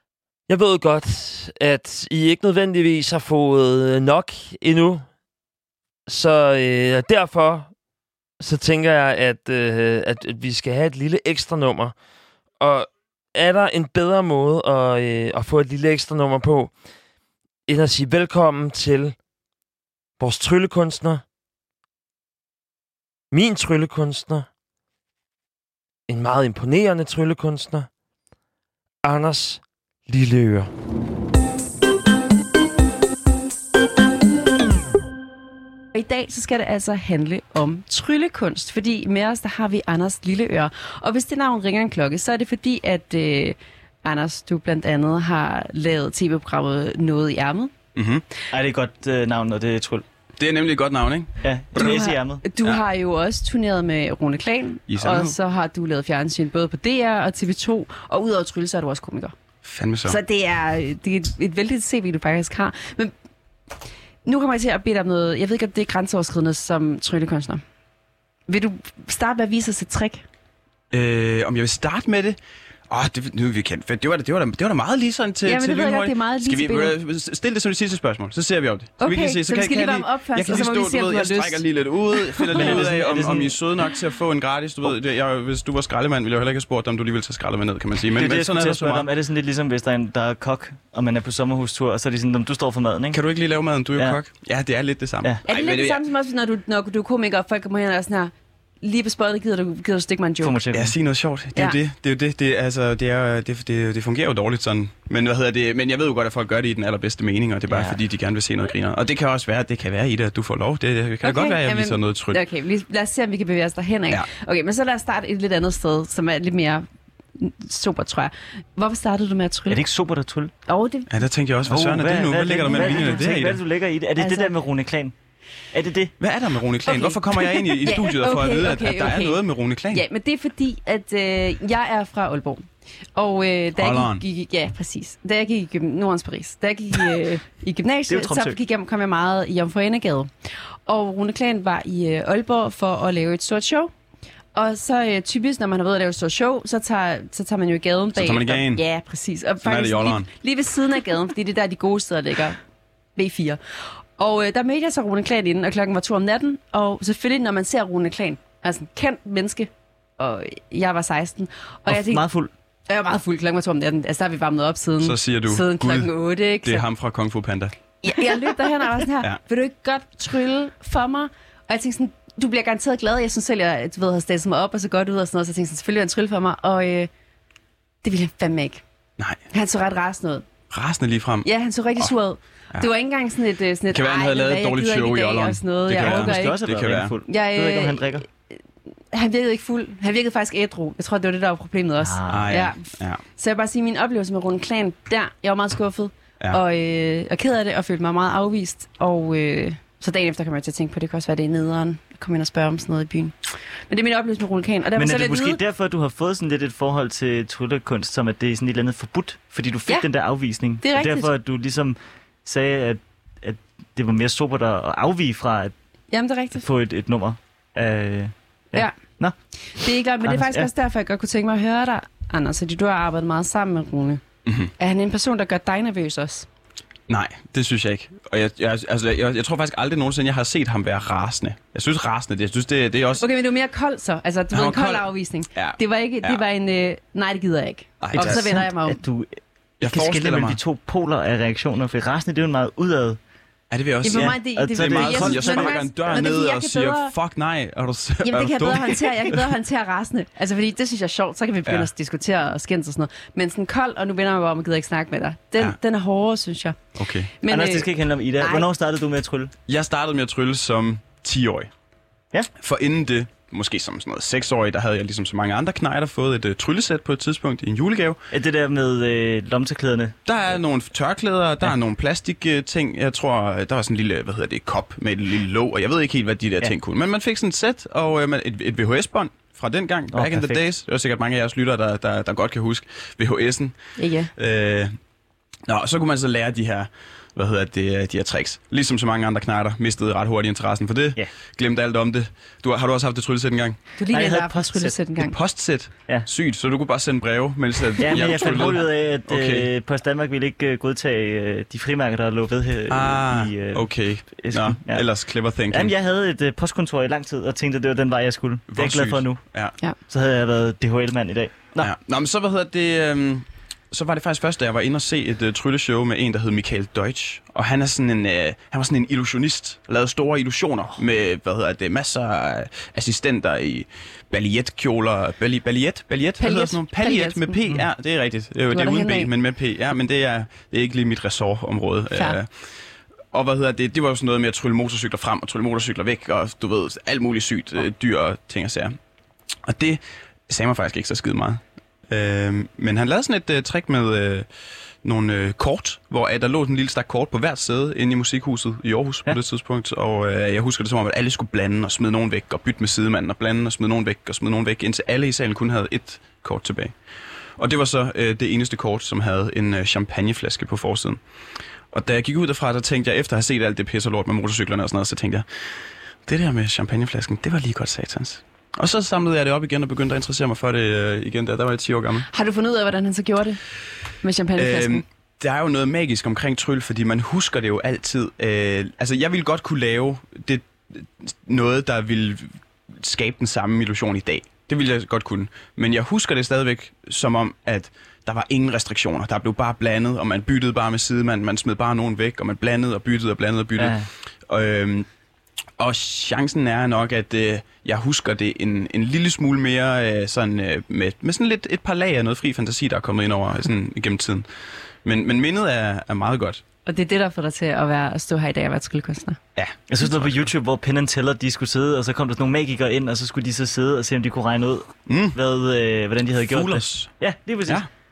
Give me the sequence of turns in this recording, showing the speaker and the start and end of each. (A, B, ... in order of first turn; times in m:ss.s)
0:00.5-0:05.1 A
0:06.1-0:07.8 A
0:08.4-0:12.0 A
0:12.6-0:16.8 A
0:17.7-0:19.2 A
0:20.2-0:21.2 A
0:23.3-0:24.5 A
0:26.1-0:27.9 A
0:29.0-0:30.7 A
0:35.9-0:47.7 B
0:48.0-0:48.2 C
0:48.5-0:50.0 D
0:50.4-0:52.0 C
0:51.4-0:52.4 D
0:51.8-0:59.3 B
0:54.9-0:55.4 C
0:59.6-1:00.2 C
1:00.0-1:03.1 B
1:04.2-1:07.6 B
1:08.5-1:10.2 B
1:10.9-1:12.4 C
1:12.9-1:29.1 C
1:15.4-1:17.0 B
1:19.0-1:22.9 B
1:22.5-1:23.6 D
1:28.2-1:33.2 D
1:33.1-1:36.0 C
1:35.4-1:40.6 B
1:40.4-1:41.0 D
1:40.7-1:52.4 C
1:47.7-1:48.0 D
1:51.2-1:56.8 B
1:57.4-1:59.8 B
1:59.7-2:00.5 D
2:00.7-2:01.3 B
2:01.1-2:03.6 C
2:01.7-2:05.1 D
2:02.7-2:03.3 B
2:04.2-2:04.5 B
2:05.7-2:06.1 D
2:06.2-2:10.0 C
2:06.9-2:20.3 B
2:13.8-2:14.2 C
2:18.1-2:18.6 D
2:20.8-2:23.9 B
2:24.5-2:32.6 B
2:28.1-2:28.8 C
2:29.6-2:30.3 C
2:33.2-2:33.6 B
2:34.2-2:42.2 B
2:41.9-2:42.5 D
2:42.9-2:46.9 B
2:45.0-2:47.7 C
2:48.0-2:57.1 B
2:58.0-2:58.8 B
2:59.5-3:00.4 B
3:00.7-3:02.1 C
3:01.4-3:06.6 B
3:03.9-3:07.1 C
3:06.0-3:08.2 D
3:07.3-3:08.5 B
3:09.1-3:25.6 B
3:12.0-3:12.5 D
3:12.3-3:13.2 C
3:25.0-3:35.7 D
3:30.8-3:31.3 B
3:36.1-3:36.6 B
3:36.6-3:39.4 D
3:39.7-3:44.2 B
3:40.2-3:40.7 D
3:44.5-3:44.7 C
3:44.8-3:46.5 B
3:47.1-3:53.2 C
3:53.2-3:59.0 B
3:54.5-3:56.4 C
3:58.0-3:58.5 C
3:58.1-4:03.2 D
3:59.8-4:00.6 C
4:03.7-4:09.5 C
4:04.0-4:07.1 B
4:04.1-4:05.8 D
4:08.2-4:16.8 B
4:17.0-4:17.3 C
4:17.4-4:18.7 B
4:17.5-4:19.5 D
4:19.7-4:21.7 C
4:22.6-4:28.2 C
4:28.3-4:30.2 D
4:30.3-4:43.8 C
4:40.1-4:40.6 D
4:44.0-4:44.3 B
4:44.4-4:44.9 C
4:45.7-4:53.8 C
4:54.0-4:55.4 B
4:54.1-4:55.0 D
4:55.2-4:59.7 C
4:58.0-5:05.1 D
5:02.9-5:05.9 C
5:05.7-5:09.4 D
5:08.7-5:09.8 C
5:10.1-5:11.9 D
5:11.8-5:32.5 C
5:26.4-5:27.6 B
5:28.7-5:29.3 B
5:32.2-5:32.4 B
5:33.3-5:38.9 C
5:39.7-5:44.5 C
5:45.0-5:56.9 C
5:57.6-6:01.2 C
6:01.9-6:05.4 C
6:06.3-6:12.3 C
6:12.3-6:13.6 B
6:14.2-6:15.0 B
6:14.6-6:35.1 C
6:33.8-6:34.1 D
6:35.8-6:44.5 C
6:45.0-6:46.6 C
6:46.9-6:49.4 B
6:49.6-6:50.5 C
6:49.9-6:57.8 D
6:55.1-6:55.4 C
6:56.5-6:57.1 C